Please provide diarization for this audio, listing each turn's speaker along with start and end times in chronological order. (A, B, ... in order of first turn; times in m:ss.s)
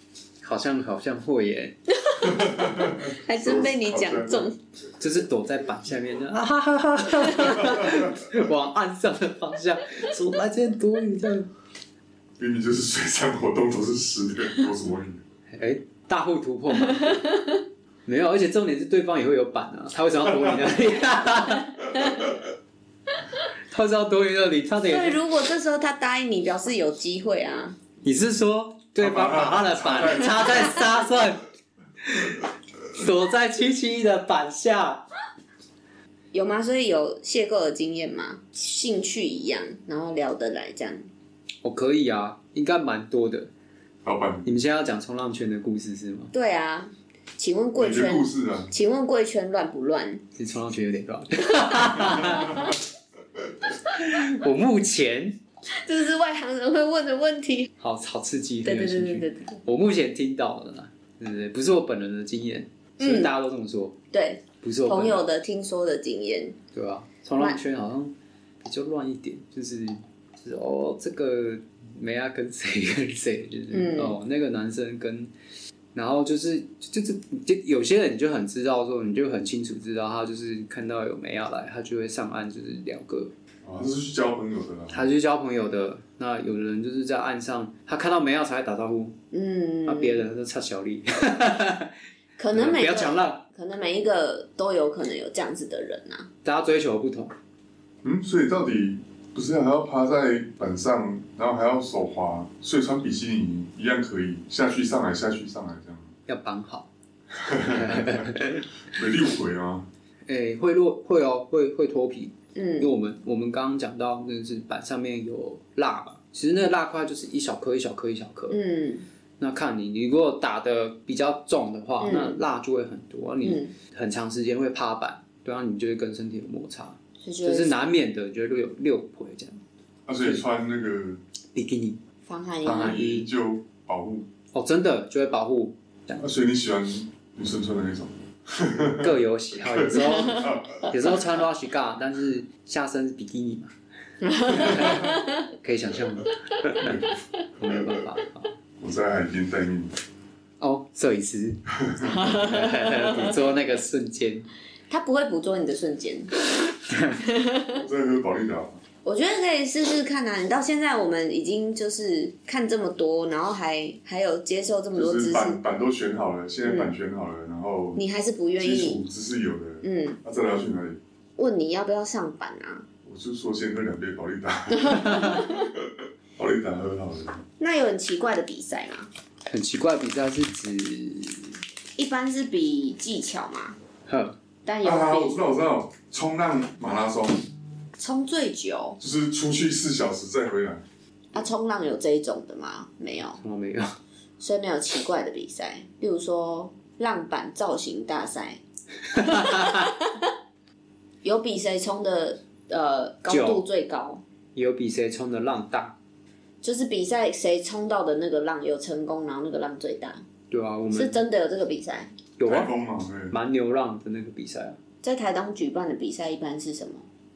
0:00.4-0:01.7 A
0:02.0-0:04.6 B
0:02.2-0:04.5 C
0:05.0-0:11.5 A
0:07.6-0:08.1 C
0:12.4-0:15.2 C
0:15.5-0:17.3 A
0:17.0-0:17.6 B
0:18.0-0:22.3 A
0:21.9-0:22.3 B
0:23.7-0:25.2 A
0:24.8-0:27.8 B
0:28.0-0:31.4 A
0:29.0-0:31.0 C
0:32.0-0:35.0 A
0:36.3-0:41.0 B
0:41.6-0:43.5 A
0:44.0-0:44.5 C
0:44.4-0:46.3 A
0:46.3-0:50.2 B
0:47.8-0:48.7 C
0:50.4-0:52.6 A
0:52.2-0:52.7 C
0:52.3-0:52.7 B
0:53.8-0:55.4 A
0:55.8-0:57.7 B
0:57.8-1:04.0 A
0:58.6-0:59.6 B
1:03.0-1:03.3 B
1:04.1-1:06.6 B
1:04.6-1:05.3 A
1:06.7-1:15.3 A
1:13.7-1:14.2 B
1:15.9-1:23.3 A
1:23.6-1:25.1 C
1:24.9-1:29.2 A
1:29.3-1:30.2 B
1:29.8-1:31.9 A
1:32.4-1:36.3 B
1:32.5-1:33.4 A
1:36.4-1:37.3 A
1:38.0-1:46.1 C
1:46.3-1:46.9 A
1:47.3-1:49.8 C
1:47.7-1:48.7 A
1:50.3-1:58.6 A
1:52.5-1:52.9 B
1:58.5-1:59.0 B
1:59.4-2:09.6 A
2:02.0-2:02.4 B
2:03.4-2:03.7 B
2:07.2-2:07.8 B
2:10.1-2:11.2 C
2:11.5-2:12.0 A
2:12.2-2:13.0 B
2:12.6-2:14.2 C
2:12.6-2:13.3 A
2:14.5-2:16.2 A
2:16.2-2:20.8 C
2:19.0-2:23.7 A
2:20.2-2:20.5 B
2:24.2-2:25.5 B
2:24.6-2:27.0 A
2:26.8-2:28.0 C
2:27.6-2:28.5 A
2:28.8-2:30.0 C
2:30.6-2:34.5 A
2:31.8-2:32.3 C
2:32.0-2:33.3 B
2:34.9-2:36.4 B
2:37.1-2:37.8 B
2:37.7-2:38.8 C
2:39.0-2:45.6 B
2:44.9-2:48.0 C
2:46.6-2:47.0 B
2:48.0-2:49.0 B
2:48.6-2:51.0 C
2:49.8-2:50.2 B
2:51.4-2:52.8 B
2:53.0-2:57.4 C
2:54.9-2:55.7 B
2:57.6-2:59.1 B
2:59.5-3:01.6 A
3:02.0-3:03.8 B
3:04.1-3:04.4 A
3:04.6-3:05.4 B
3:04.8-3:07.4 C
3:08.0-3:09.0 B
3:09.0-3:10.8 C
3:11.3-3:13.4 B
3:13.4-3:14.0 A
3:14.4-3:18.6 B
3:19.1-3:20.3 B
3:19.1-3:19.9 A
3:21.2-3:24.2 B
3:23.3-3:23.6 A
3:24.5-3:25.9 A
3:26.6-3:30.2 B
3:30.5-3:31.2 A
3:30.9-3:32.1 B
3:32.4-3:32.7 A
3:32.4-3:33.3 C
3:33.3-3:34.8 A
3:35.0-3:37.0 B